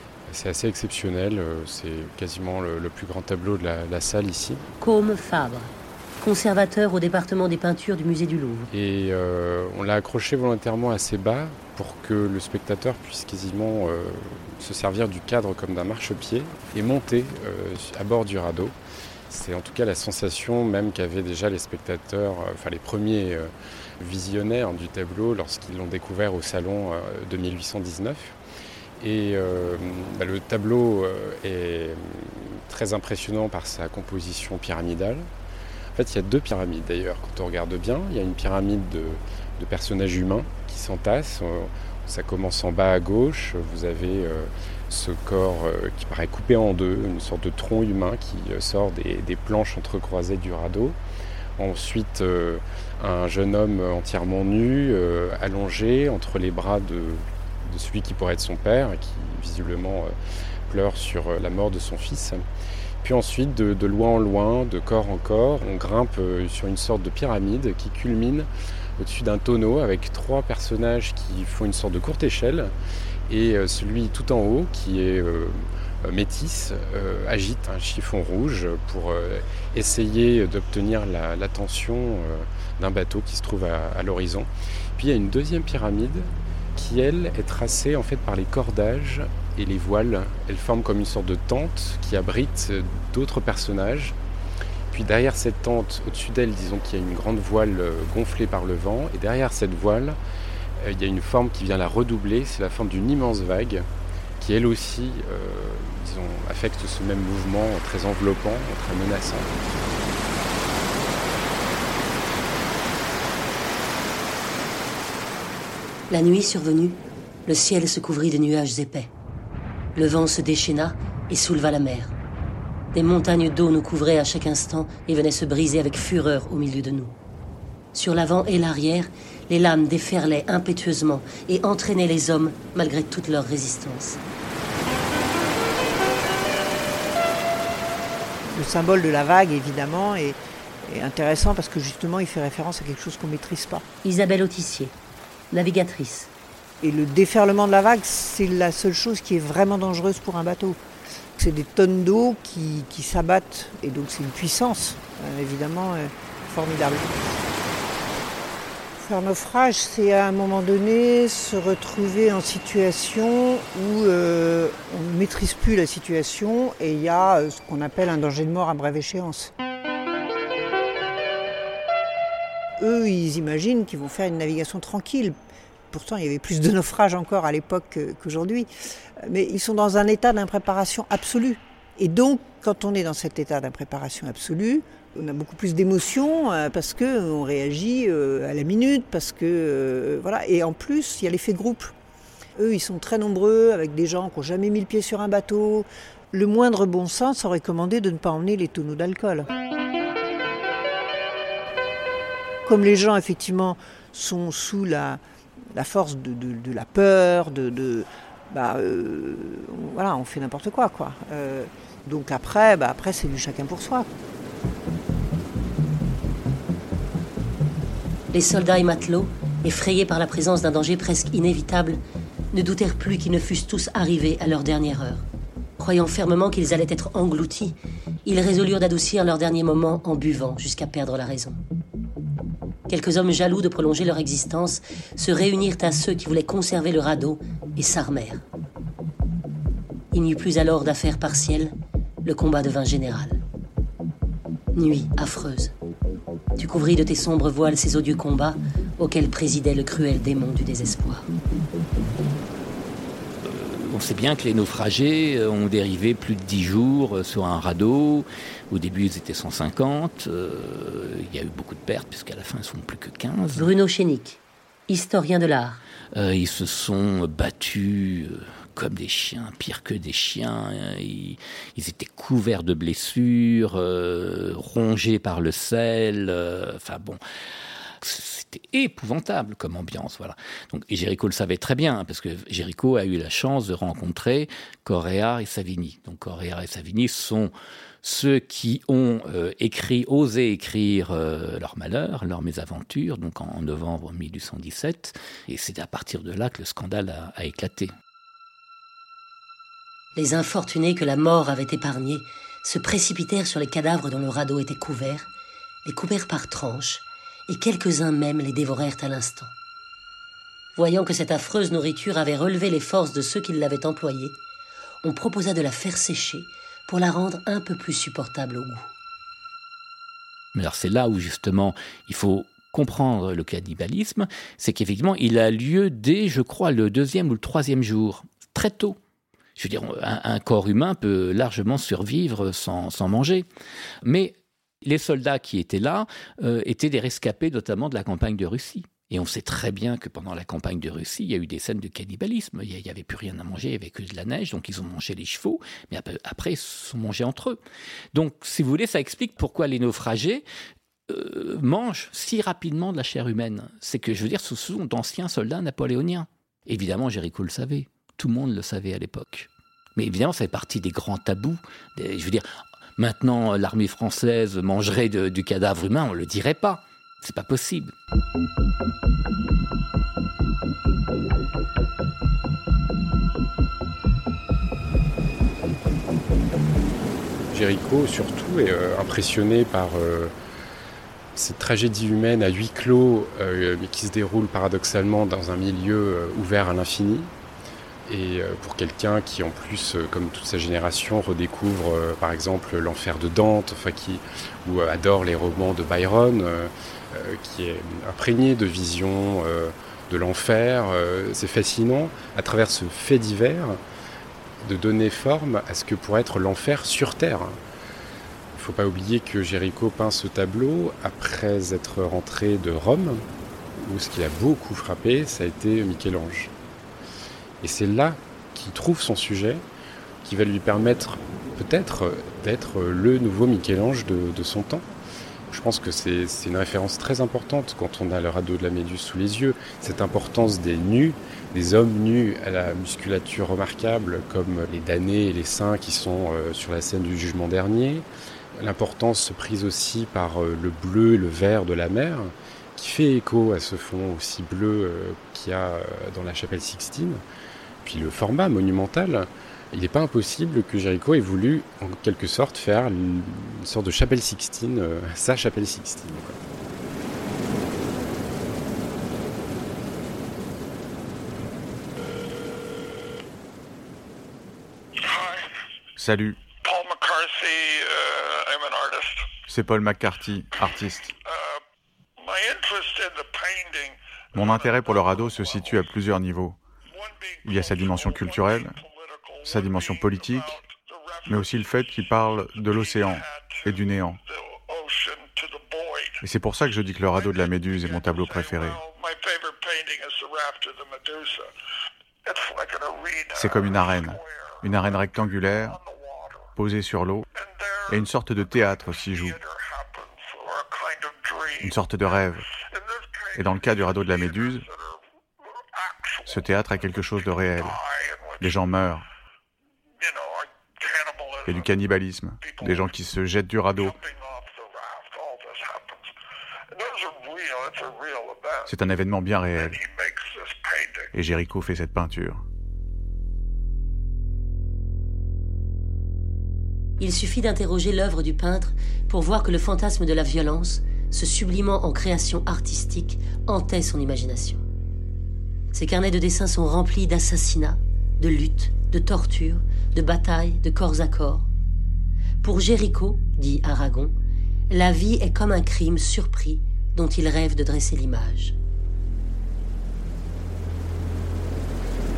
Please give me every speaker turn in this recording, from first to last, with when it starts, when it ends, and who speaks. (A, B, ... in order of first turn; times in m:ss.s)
0:00.3-0:04.6 A
0:04.8-0:08.7 B
0:08.7-0:18.8 A
0:19.3-0:28.4 A
0:29.0-0:35.3 A
0:35.9-0:51.0 A
0:51.6-1:00.1 A
1:00.7-1:02.4 A
1:03.0-1:12.7 A
1:13.3-1:34.2 A
1:34.9-1:40.2 A
1:40.8-1:43.9 A
1:44.4-1:49.5 A
1:56.1-1:59.1 B
1:59.9-2:02.2 B
2:02.9-2:07.1 B
2:07.9-2:14.2 B
2:18.4-2:23.8 C
2:24.0-2:24.9 B
2:25.5-2:26.3 B
2:26.8-2:30.8 C
2:31.4-2:37.2 C
2:39.0-2:49.5 C
2:52.8-2:55.4 C
2:55.9-2:58.7 C
2:59.2-3:11.9 C
3:12.6-3:19.5 C
3:22.6-3:25.2 C
3:25.7-3:34.1 C
3:38.3-3:42.0 B
3:42.5-3:45.3 B
3:45.8-3:51.6 B
3:52.9-3:58.4 B
4:00.1-4:03.4 B
4:04.7-4:05.7 B
4:06.6-4:11.3 B
4:13.4-4:23.7 D
4:23.5-4:25.8 B
4:26.1-4:37.2 D
4:38.0-4:57.9 D
5:00.2-5:05.3 B
5:05.8-5:09.5 B
5:10.8-5:14.4 B
5:15.0-5:18.9 B
5:20.5-5:29.0 D
5:29.6-5:33.4 D
5:34.0-5:47.6 D
5:48.1-5:50.4 D
5:51.1-6:02.4 D
6:03.0-6:07.9 D
6:17.5-6:20.3 A
6:21.3-6:27.3 A
6:28.0-6:43.8 A
6:44.6-6:47.6 A
6:48.5-6:53.2 A
6:53.8-6:56.5 A
6:57.6-6:59.6 A
7:00.2-7:04.9 A
7:05.5-7:27.2 A
7:27.8-7:36.4 A
7:45.0-7:45.5 E
7:46.0-7:46.4 F
7:46.5-7:49.3 E
7:49.5-7:51.1 F
7:51.2-7:51.6 E
7:52.2-7:55.8 E
7:54.3-7:56.6 F
7:56.9-8:01.7 E
7:57.4-7:58.8 F
7:59.4-8:00.5 F
8:01.3-8:04.2 F
8:02.5-8:06.2 E
8:06.2-8:08.8 F
8:07.1-8:11.5 E
8:12.2-8:16.5 E
8:13.4-8:15.8 F
8:16.6-8:17.3 F
8:17.3-8:26.6 E
8:17.9-8:19.4 F
8:21.6-8:22.4 F
8:23.4-8:24.6 F
8:26.3-8:27.8 F
8:27.6-8:28.6 E
8:28.4-8:29.0 F
8:30.0-8:31.7 E
8:31.4-8:34.0 F
8:32.4-8:32.9 E
8:33.7-8:36.1 E
8:36.7-8:38.7 E
8:38.7-8:39.8 F
8:39.6-8:41.1 E
8:41.1-8:42.4 F
8:47.0-8:54.6 B
8:55.7-9:01.5 B
9:02.4-9:04.2 B
9:04.7-9:08.6 B